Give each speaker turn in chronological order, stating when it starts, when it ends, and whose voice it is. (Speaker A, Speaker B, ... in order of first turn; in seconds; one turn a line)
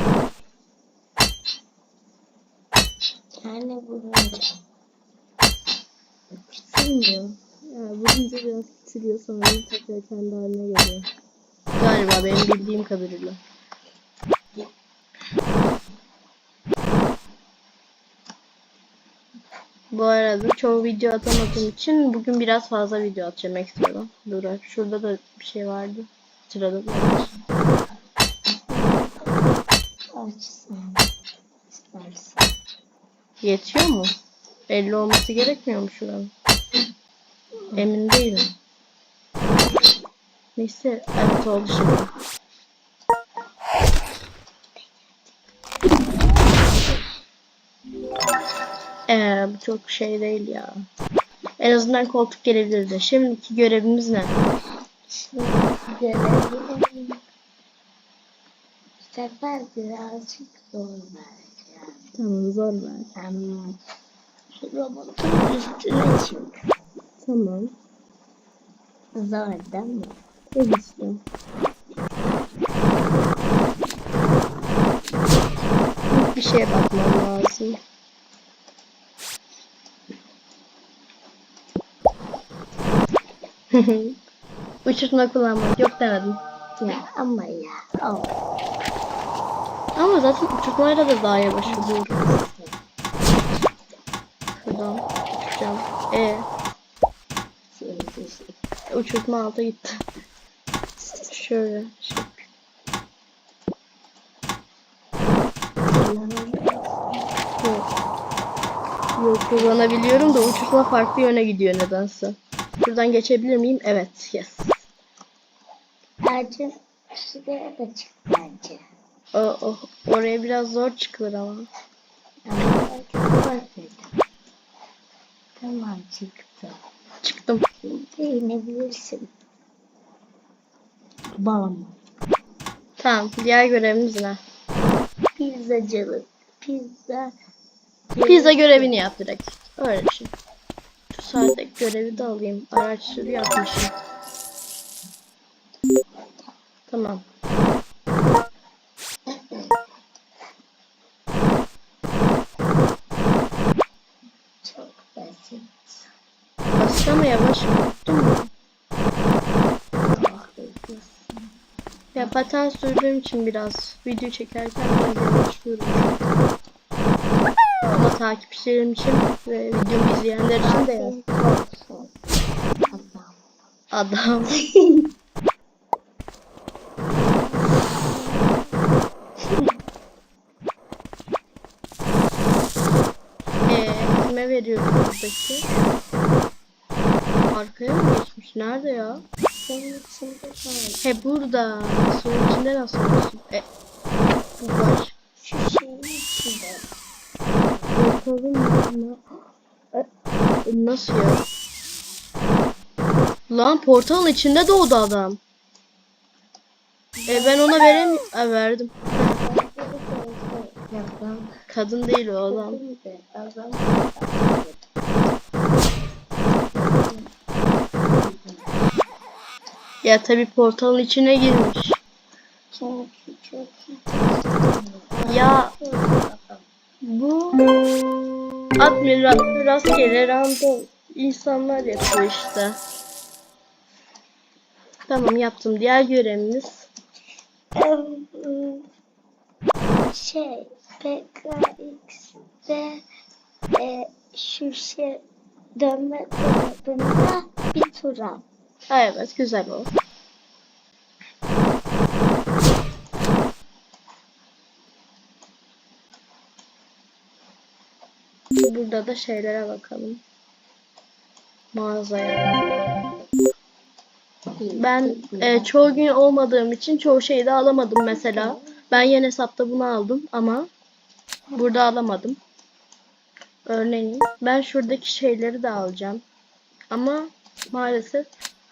Speaker A: 3.4-4.6
Speaker A: 6.5-7.3
Speaker B: 7.7-11.1
Speaker B: 11.8-13.4
Speaker B: 19.9-27.3
Speaker A: 28.7-29.3
Speaker A: 30.1-31.1
Speaker A: 31.7-32.5
Speaker B: 33.4-34.1
Speaker B: 34.7-36.3
Speaker B: 37.7-38.5
Speaker B: 40.5-42.1
Speaker B: 49.1-50.7
Speaker B: 51.6-54.3
Speaker A: 55.1-57.2
Speaker A: 59.1-62.0
Speaker B: 62.1-63.1
Speaker A: 63.2-63.8
Speaker A: 64.6-66.5
Speaker B: 67.2-67.7
Speaker A: 69.1-70.2
Speaker B: 70.5-71.2
Speaker B: 76.1-77.8
Speaker B: 83.7-84.2
Speaker B: 84.8-86.4
Speaker A: 86.8-88.3
Speaker B: 90.0-92.2
Speaker A: 91.6-92.8
Speaker B: 94.6-96.5
Speaker A: 97.7-98.5
Speaker B: 98.9-100.0
Speaker B: 101.2-102.5
Speaker A: 106.0-107.3
Speaker B: 107.6-107.9
Speaker B: 109.2-114.8
Speaker A: 116.3-118.8
Speaker B: 119.3-121.7
Speaker A: 122.5-124.1
Speaker A: 125.6-126.8
Speaker B: 127.2-127.6
Speaker A: 127.9-129.3
Speaker A: 131.4-131.9
Speaker B: 133.0-134.4
Speaker A: 135.4-137.3
Speaker A: 138.1-139.0
Speaker B: 138.2-140.3
Speaker B: 141.1-143.9
Speaker B: 146.9-147.2
Speaker A: 154.6-156.1
Speaker B: 156.7-158.5
Speaker A: 160.0-161.3
Speaker B: 162.1-166.3
Speaker B: 167.9-171.2
Speaker A: 170.6-172.1
Speaker A: 172.9-173.4
Speaker B: 173.9-175.0
Speaker A: 177.2-178.7
Speaker B: 183.7-185.7
Speaker B: 187.5-189.2
Speaker A: 189.6-191.0
Speaker B: 191.0-193.7
Speaker B: 194.6-195.1
Speaker A: 195.4-196.9
Speaker B: 197.9-199.2
Speaker B: 200.7-201.4
Speaker B: 203.5-205.4
Speaker A: 207.2-207.7
Speaker B: 207.3-209.4
Speaker A: 209.4-211.6
Speaker B: 211.7-212.8
Speaker A: 212.5-214.8
Speaker A: 216.7-217.3
Speaker A: 218.1-218.7
Speaker B: 220.0-222.0
Speaker A: 222.7-226.6
Speaker B: 225.2-225.7
Speaker B: 227.0-227.6
Speaker B: 228.8-232.8
Speaker B: 235.1-236.9
Speaker A: 237.8-238.8
Speaker A: 240.1-243.0
Speaker A: 243.8-245.2
Speaker A: 245.8-248.4
Speaker B: 248.9-249.9
Speaker B: 258.6-260.2
Speaker B: 261.7-262.5
Speaker A: 264.6-266.0
Speaker B: 264.8-270.7
Speaker A: 268.1-268.8
Speaker B: 271.5-272.4
Speaker B: 273.7-276.2
Speaker B: 276.9-278.3